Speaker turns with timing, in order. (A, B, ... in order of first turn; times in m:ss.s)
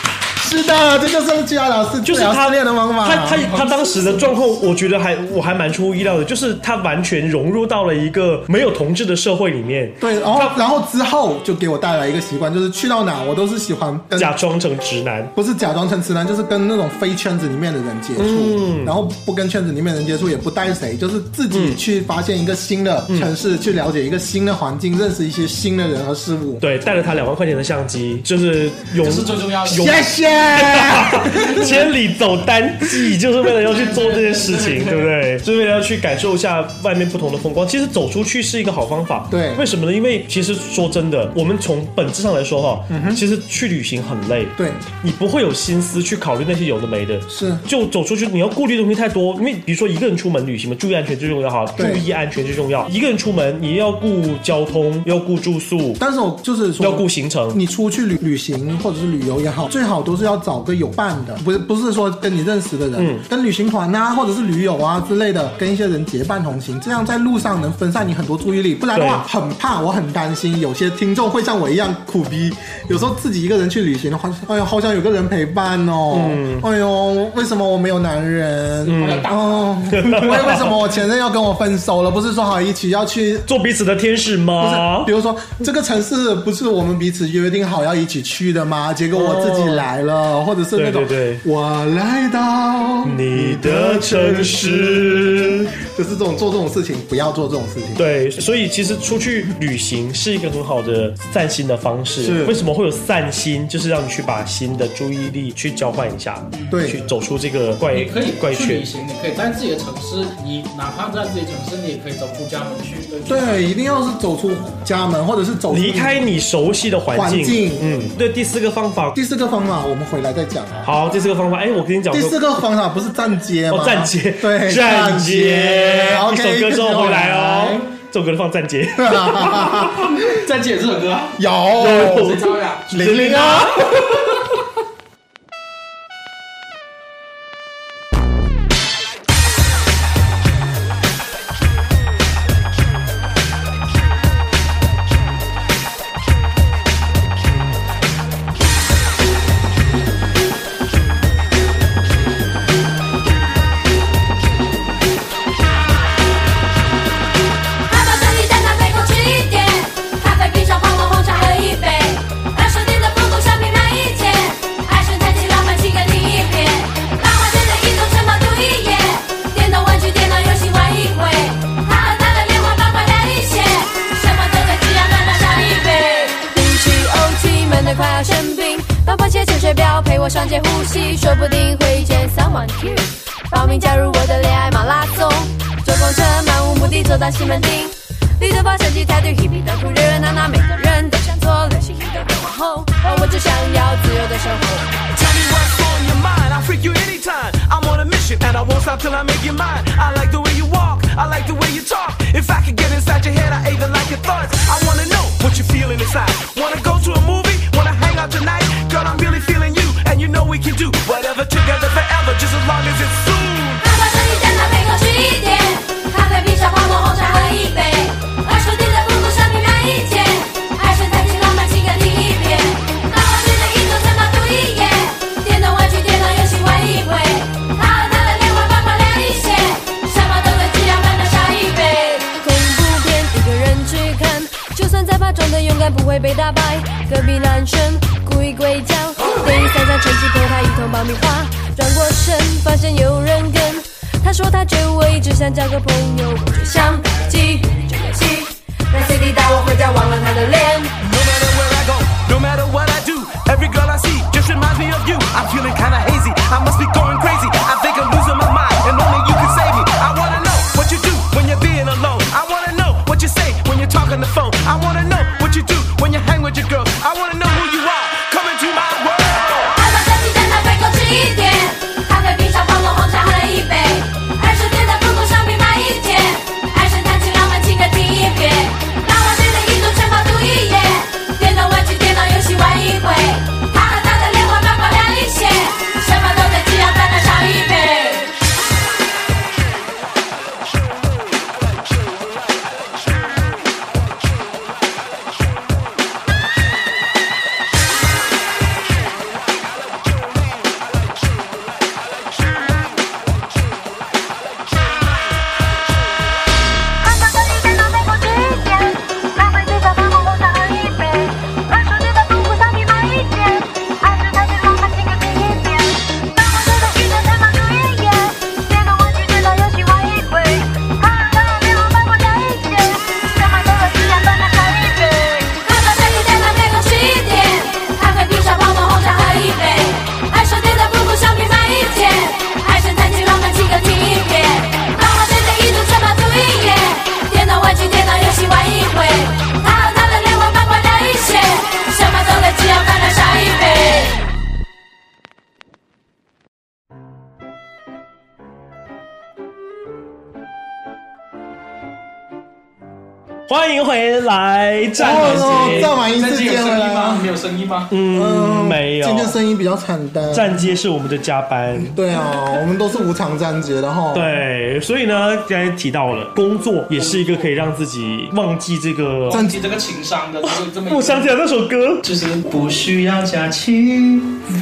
0:00.4-0:03.5 A
0:02.0-0:10.5 B
0:03.4-0:04.4 C
0:10.0-0:14.3 A
0:14.2-0:15.3 B
0:15.3-0:26.6 A
0:18.2-0:18.9 B
0:21.5-0:21.8 B
0:26.6-0:56.0 B
0:29.0-0:30.0 C
0:29.7-0:31.9 A
0:33.6-0:35.1 C
0:39.3-0:39.6 A
0:42.9-0:43.2 A
0:44.6-0:44.8 A
0:47.3-0:47.6 A
0:51.8-0:52.0 A
0:56.0-1:23.5 A
0:56.8-0:57.6 B
1:03.0-1:03.2 B
1:08.9-1:09.2 B
1:16.1-1:16.6 B
1:18.8-1:19.3 B
1:19.0-1:19.8 C
1:19.9-1:20.8 B
1:23.5-1:25.1 B
1:24.6-1:38.0 A
1:29.1-1:29.9 B
1:30.7-1:31.4 B
1:33.0-1:35.7 B
1:38.0-1:48.8 B
1:42.2-1:42.6 A
1:46.5-1:46.8 C
1:46.7-1:47.0 A
1:47.9-1:53.7 C
1:53.3-1:56.2 A
1:55.7-1:59.2 B
1:57.1-1:58.1 A
1:59.1-2:00.9 A
2:00.8-2:02.4 B
2:02.1-2:07.9 A
2:03.7-2:10.0 B
2:09.0-2:10.1 A
2:10.2-2:12.9 C
2:11.4-2:13.8 A
2:11.8-2:13.9 B
2:37.8-3:14.9 D
3:15.1-3:33.8 E
3:33.8-4:10.9 D
4:07.0-4:07.6 C
4:11.0-4:29.7 E
4:29.6-4:48.3 D
5:07.0-5:25.6 F
5:25.6-5:44.2 D
5:53.5-5:55.9 B
5:55.0-5:57.9 C
5:55.0-5:57.3 A
5:57.9-5:59.3 B
5:58.1-6:00.6 A
6:00.3-6:01.9 B
6:01.8-6:04.3 A
6:04.1-6:09.4 B
6:06.9-6:07.5 C
6:09.3-6:11.3 C
6:09.3-6:09.6 A
6:10.4-6:12.0 B
6:12.0-6:14.4 C